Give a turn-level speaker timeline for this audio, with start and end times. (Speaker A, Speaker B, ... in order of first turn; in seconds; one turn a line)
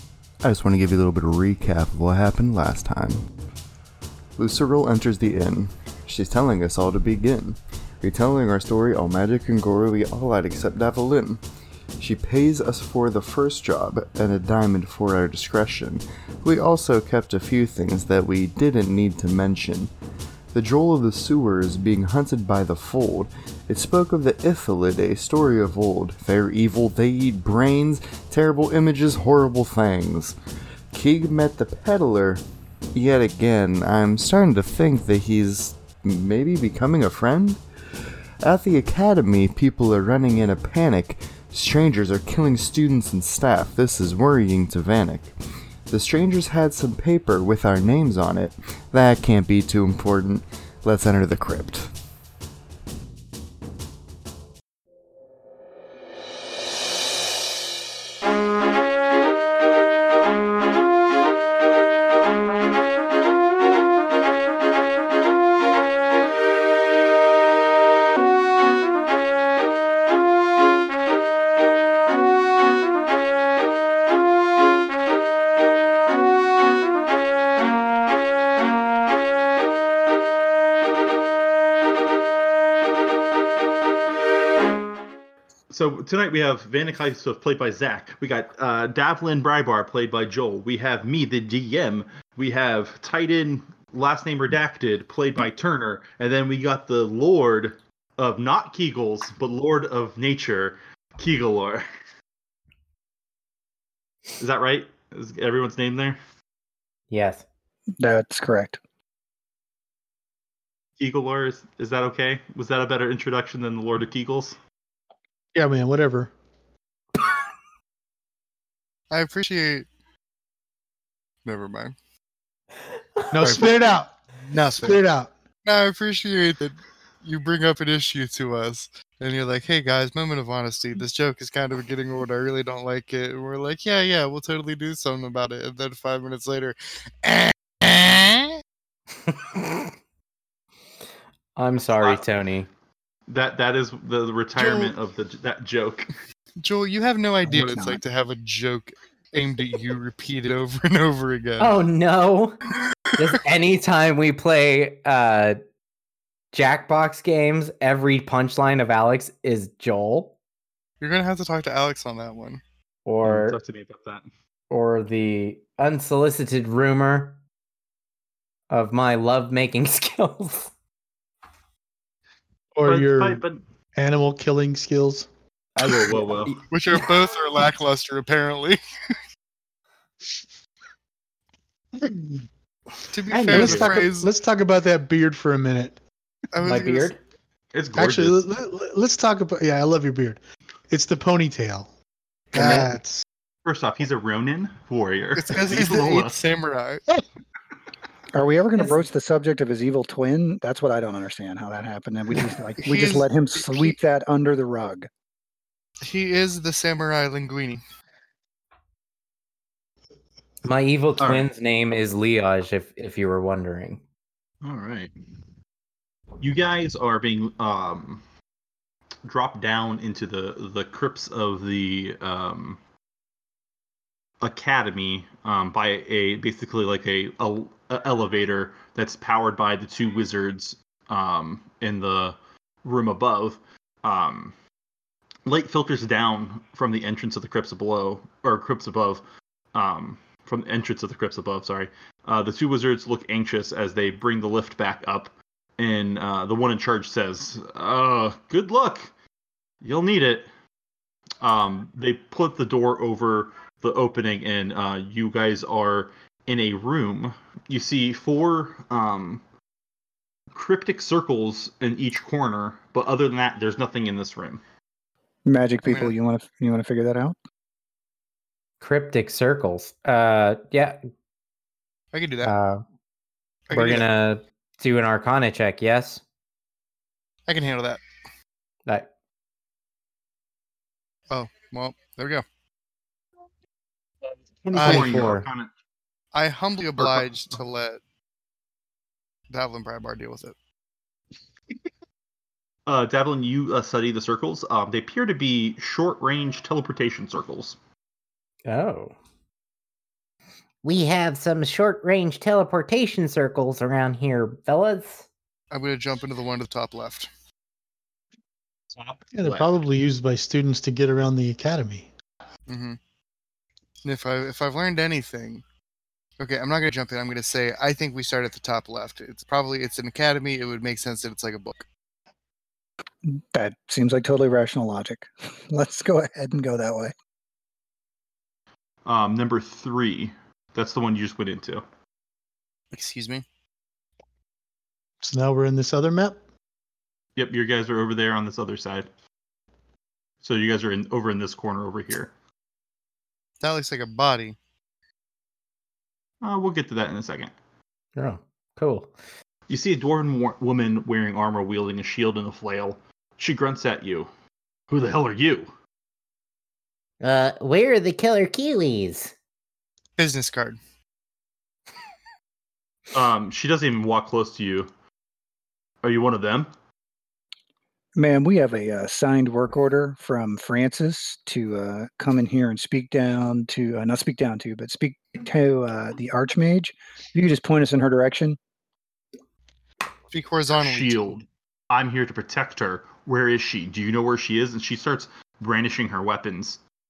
Speaker A: 0.4-3.2
Speaker A: 4.3-11.4
Speaker A: 12.0-19.9
Speaker A: 20.5-30.4
Speaker A: 30.9-37.6
Speaker A: 38.4-45.3
Speaker A: 45.9-51.9
Speaker B: 85.7-101.8
Speaker B: 104.4-106.2
Speaker C: 107.1-107.4
Speaker D: 108.0-108.8
Speaker B: 111.0-114.6
Speaker E: 115.5-116.3
Speaker F: 119.1-119.9
Speaker F: 121.4-121.9
Speaker E: 123.3-125.3
Speaker F: 123.4-123.9
Speaker F: 124.8-125.0
Speaker F: 125.6-138.6
Speaker C: 139.3-139.8
Speaker C: 141.6-142.7
Speaker B: 142.0-142.2
Speaker B: 143.3-146.1
Speaker F: 144.6-144.9
Speaker F: 146.6-151.8
Speaker D: 147.4-148.0
Speaker C: 151.6-152.6
Speaker C: 153.2-155.6
Speaker C: 156.5-160.3
Speaker F: 161.0-162.6
Speaker C: 163.0-163.6
Speaker B: 163.2-164.3
Speaker C: 164.7-167.4
Speaker C: 168.7-170.7
Speaker E: 172.7-173.4
Speaker B: 172.8-173.6
Speaker E: 173.9-175.3
Speaker B: 175.8-176.6
Speaker F: 176.7-178.8
Speaker E: 182.0-182.4
Speaker F: 183.1-184.3
Speaker C: 183.3-184.1
Speaker E: 183.5-186.0
Speaker B: 183.6-183.9
Speaker F: 186.5-187.1
Speaker C: 186.6-187.2
Speaker B: 187.7-188.4
Speaker E: 187.9-190.4
Speaker E: 190.9-191.9
Speaker E: 192.5-193.2
Speaker F: 192.6-192.9
Speaker B: 193.6-196.4
Speaker F: 195.3-197.0
Speaker D: 198.3-205.1
Speaker F: 202.3-203.9
Speaker F: 206.0-207.8
Speaker C: 210.6-214.0
Speaker B: 211.2-211.4
Speaker B: 214.6-215.1
Speaker B: 216.4-218.2
Speaker B: 219.2-222.8
Speaker B: 224.4-234.5
Speaker B: 235.4-249.1
Speaker B: 249.8-250.5
Speaker B: 251.4-259.4
Speaker B: 260.5-264.6
Speaker D: 265.4-267.4
Speaker F: 265.9-266.1
Speaker C: 268.8-271.0
Speaker F: 272.1-272.5
Speaker C: 272.4-272.8
Speaker F: 273.7-274.1
Speaker C: 273.7-276.2
Speaker F: 277.5-278.0
Speaker F: 281.3-282.4
Speaker B: 284.6-285.7
Speaker F: 284.7-285.3
Speaker C: 284.7-285.5
Speaker F: 286.3-288.0
Speaker B: 287.0-287.6
Speaker F: 289.5-290.5
Speaker B: 292.9-297.8
Speaker C: 298.6-299.1
Speaker C: 300.8-305.3
Speaker F: 305.7-307.3
Speaker B: 308.9-309.7
Speaker E: 309.3-312.1
Speaker F: 312.7-313.0
Speaker F: 314.0-315.6
Speaker F: 316.4-321.9
Speaker D: 323.2-327.1
Speaker B: 329.0-331.8
Speaker F: 332.9-333.4
Speaker E: 335.2-336.4
Speaker B: 337.4-339.1
Speaker B: 340.4-342.3
Speaker F: 343.6-344.6
Speaker B: 346.4-347.5
Speaker C: 348.1-349.1
Speaker B: 349.7-354.3
Speaker B: 354.9-355.7
Speaker C: 357.2-359.3
Speaker F: 360.2-360.8
Speaker B: 363.1-364.9
Speaker B: 366.0-366.7
Speaker D: 368.1-378.6
Speaker F: 380.3-381.2
Speaker B: 380.7-386.8